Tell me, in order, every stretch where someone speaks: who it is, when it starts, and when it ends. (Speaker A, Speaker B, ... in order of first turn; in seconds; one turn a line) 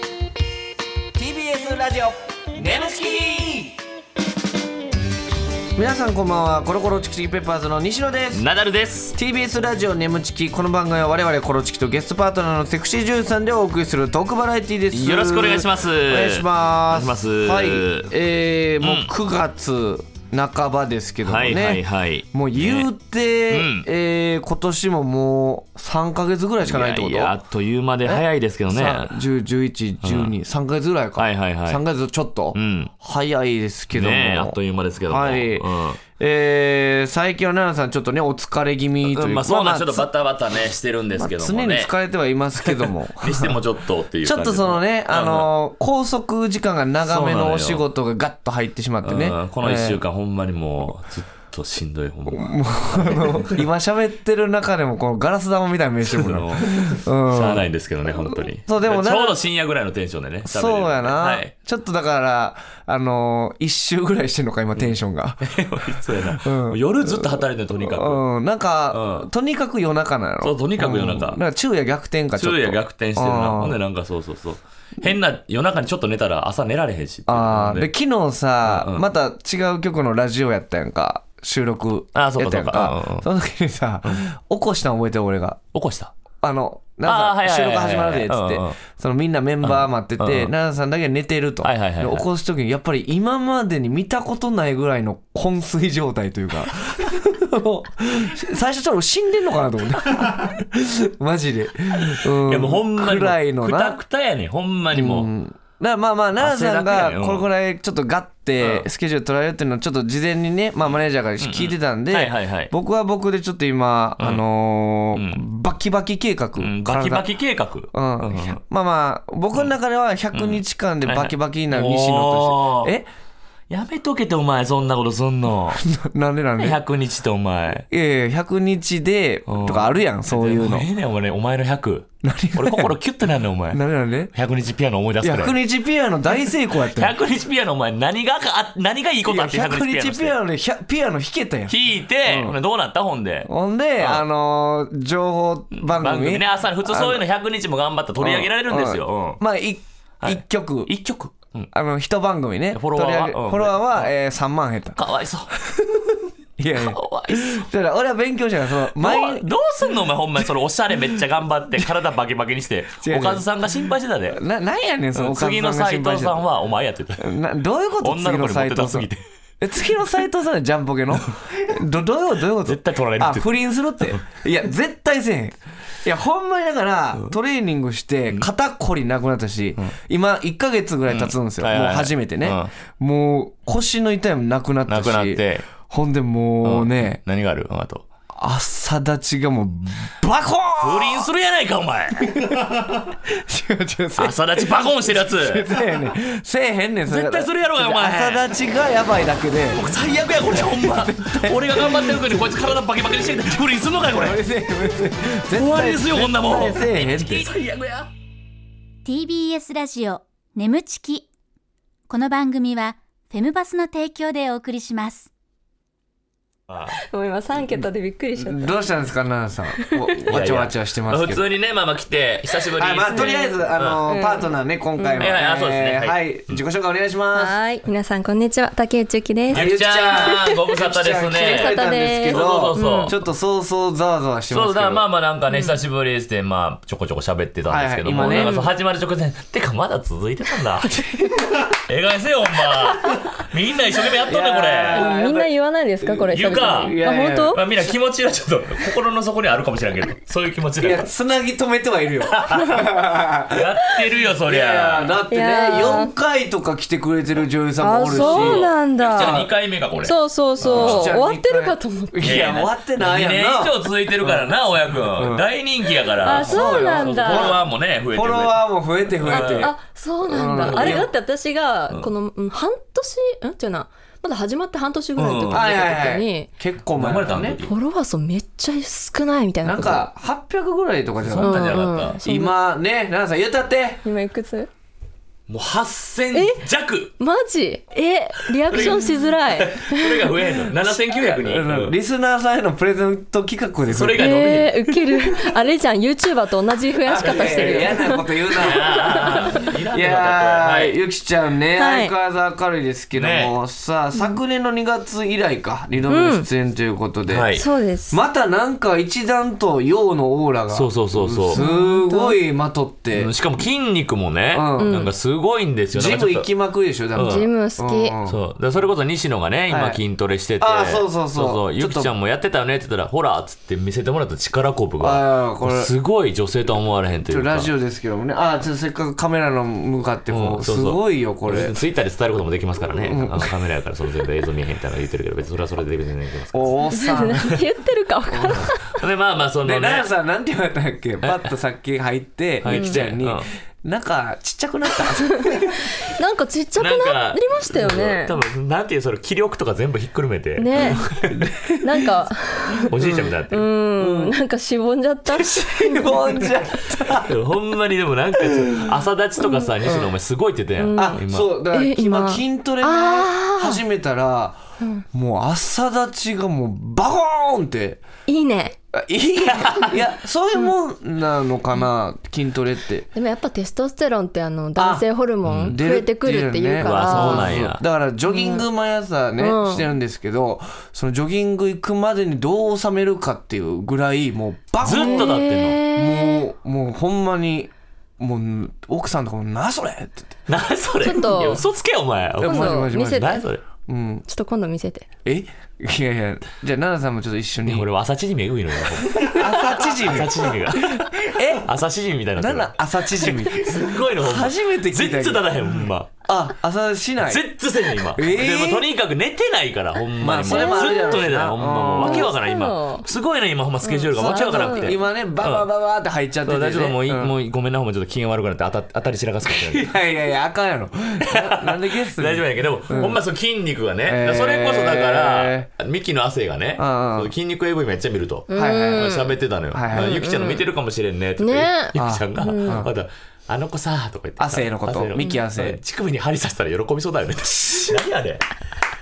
Speaker A: 1.1-3.8
Speaker A: 5.7-8.4
Speaker B: 8.3-9.2
Speaker A: 9.1-27.4
Speaker B: 14.9-18.1
Speaker B: 18.8-19.1
Speaker B: 21.2-22.9
Speaker B: 23.5-23.9
Speaker B: 26.6-29.2
Speaker A: 28.0-35.7
Speaker B: 30.0-30.3
Speaker B: 31.2-31.8
Speaker B: 32.5-32.9
Speaker B: 33.9-36.0
Speaker A: 36.2-40.1
Speaker B: 39.0-41.9
Speaker A: 41.2-43.6
Speaker B: 42.6-45.5
Speaker A: 44.2-50.0
Speaker B: 47.0-47.8
Speaker B: 49.0-53.6
Speaker A: 52.3-57.7
Speaker B: 56.1-61.5
Speaker A: 58.3-59.4
Speaker A: 60.5-73.8
Speaker B: 64.8-68.2
Speaker B: 68.9-69.3
Speaker B: 70.4-71.4
Speaker B: 72.3-77.9
Speaker A: 77.3-85.6
Speaker B: 78.6-79.0
Speaker B: 82.1-83.2
Speaker B: 85.7-86.1
Speaker A: 86.4-104.0
Speaker B: 87.0-88.8
Speaker B: 89.6-90.5
Speaker B: 91.6-92.2
Speaker B: 102.1-105.3
Speaker A: 104.9-117.3
Speaker B: 106.4-107.5
Speaker B: 108.6-108.8
Speaker B: 111.4-112.7
Speaker B: 115.1-115.4
Speaker B: 116.6-118.6
Speaker A: 117.9-123.0
Speaker B: 120.3-122.9
Speaker B: 123.7-125.8
Speaker A: 125.7-126.8
Speaker B: 126.6-127.8
Speaker A: 127.9-130.8
Speaker B: 129.5-133.8
Speaker A: 132.2-132.9
Speaker A: 133.7-134.3
Speaker B: 134.3-135.6
Speaker A: 135.2-137.1
Speaker B: 136.5-140.3
Speaker A: 139.3-142.6
Speaker B: 141.7-144.2
Speaker A: 143.4-147.2
Speaker B: 145.7-149.4
Speaker A: 148.2-150.9
Speaker B: 150.2-151.7
Speaker A: 151.7-155.0
Speaker B: 152.7-154.1
Speaker B: 154.9-155.5
Speaker A: 155.7-159.5
Speaker B: 156.7-157.7
Speaker B: 159.0-164.4
Speaker A: 163.0-163.4
Speaker A: 164.3-166.4
Speaker B: 165.1-167.3
Speaker A: 167.2-169.1
Speaker B: 168.0-169.2
Speaker A: 169.6-187.2
Speaker B: 172.6-174.2
Speaker B: 181.1-182.7
Speaker B: 184.9-185.7
Speaker B: 186.6-188.1
Speaker A: 188.3-191.2
Speaker B: 190.8-193.0
Speaker A: 192.2-199.8
Speaker B: 194.2-195.7
Speaker B: 197.1-198.4
Speaker B: 199.7-204.4
Speaker A: 200.5-202.7
Speaker A: 204.1-207.5
Speaker B: 205.5-208.1
Speaker C: 209.0-211.3
Speaker C: 212.1-215.3
Speaker B: 216.7-217.0
Speaker D: 217.0-218.8
Speaker A: 218.4-221.4
Speaker B: 220.3-224.0
Speaker A: 222.8-227.6
Speaker D: 223.1-225.3
Speaker B: 225.2-226.6
Speaker D: 227.3-230.6
Speaker A: 229.5-235.0
Speaker B: 229.5-233.2
Speaker D: 231.3-233.2
Speaker B: 234.5-240.9
Speaker A: 237.7-238.6
Speaker D: 238.2-238.7
Speaker A: 241.1-241.7
Speaker B: 241.7-245.1
Speaker A: 244.2-245.5
Speaker D: 244.9-247.6
Speaker A: 246.0-247.9
Speaker B: 246.3-251.1
Speaker A: 250.8-253.7
Speaker B: 252.3-252.9
Speaker B: 253.5-255.2
Speaker A: 254.4-259.5
Speaker D: 255.3-256.1
Speaker D: 257.8-259.4
Speaker B: 258.1-261.1
Speaker D: 260.0-262.5
Speaker A: 260.6-265.4
Speaker B: 262.2-268.6
Speaker D: 266.2-267.6
Speaker A: 266.2-269.7
Speaker B: 269.1-269.7
Speaker D: 269.3-276.5
Speaker A: 270.3-271.1
Speaker B: 270.6-271.1
Speaker B: 275.1-275.7
Speaker A: 275.5-277.6
Speaker B: 276.9-277.7
Speaker D: 277.6-280.1
Speaker A: 279.6-284.0
Speaker B: 281.2-282.2
Speaker D: 281.4-282.5
Speaker D: 284.0-284.7
Speaker B: 285.5-287.1
Speaker D: 286.3-286.6
Speaker D: 287.2-290.6
Speaker B: 288.7-291.9
Speaker A: 290.8-294.3
Speaker B: 293.9-295.0
Speaker D: 294.2-299.6
Speaker A: 297.0-307.5
Speaker B: 297.2-298.0
Speaker B: 298.6-301.0
Speaker D: 301.8-302.1
Speaker B: 303.1-303.5
Speaker D: 304.1-304.4
Speaker D: 306.1-306.4
Speaker B: 307.3-307.6
Speaker D: 307.5-308.2
Speaker A: 308.1-313.3
Speaker B: 310.7-311.6
Speaker D: 311.5-312.4
Speaker B: 313.1-316.5
Speaker A: 314.5-315.0
Speaker D: 314.8-315.1
Speaker A: 315.9-318.4
Speaker B: 317.1-317.4
Speaker D: 317.1-318.2
Speaker B: 318.3-327.7
Speaker A: 319.7-320.0
Speaker A: 320.6-322.1
Speaker A: 325.0-325.9
Speaker A: 327.3-331.7
Speaker B: 330.3-336.8
Speaker A: 332.9-333.5
Speaker A: 336.5-337.5
Speaker D: 336.9-339.0
Speaker A: 338.3-338.7
Speaker B: 338.5-340.1
Speaker A: 339.6-345.9
Speaker B: 341.2-341.5
Speaker B: 342.6-343.5
Speaker D: 342.6-343.0
Speaker D: 345.3-348.4
Speaker B: 346.8-351.5
Speaker D: 350.6-351.1
Speaker A: 351.3-352.0
Speaker D: 351.8-352.9
Speaker B: 352.9-353.7
Speaker A: 352.9-353.3
Speaker D: 353.5-356.4
Speaker A: 354.0-354.3
Speaker A: 355.3-357.3
Speaker B: 357.1-361.5
Speaker A: 358.4-358.9
Speaker D: 360.8-361.2
Speaker A: 360.9-364.6
Speaker D: 361.7-363.8
Speaker A: 365.1-368.0
Speaker D: 368.3-368.8
Speaker A: 368.9-373.1
Speaker B: 369.4-370.0
Speaker D: 373.1-377.6
Speaker A: 374.8-375.1
Speaker B: 375.4-375.8
Speaker A: 375.6-390.4
Speaker B: 376.8-377.8
Speaker D: 378.2-378.6
Speaker D: 379.4-379.9
Speaker B: 384.8-385.8
Speaker D: 384.8-386.4
Speaker B: 390.5-393.6
Speaker D: 391.0-391.6
Speaker A: 392.4-393.3
Speaker D: 392.4-393.4
Speaker A: 393.9-394.2
Speaker D: 394.3-395.0
Speaker A: 395.2-397.9
Speaker B: 397.6-406.1
Speaker A: 399.2-401.7
Speaker A: 402.4-407.4
Speaker B: 407.2-415.7
Speaker A: 408.1-408.9
Speaker A: 410.2-412.3
Speaker D: 410.5-411.2
Speaker D: 412.0-413.1
Speaker D: 413.8-415.0
Speaker A: 414.2-417.3
Speaker B: 416.4-419.9
Speaker A: 419.5-423.2
Speaker B: 421.2-438.5
Speaker A: 424.0-425.7
Speaker A: 426.8-427.3
Speaker D: 428.5-429.3
Speaker A: 428.5-429.1
Speaker A: 429.7-430.1
Speaker D: 429.9-430.6
Speaker D: 431.4-432.9
Speaker A: 431.9-432.9
Speaker A: 434.4-435.8
Speaker A: 437.7-438.0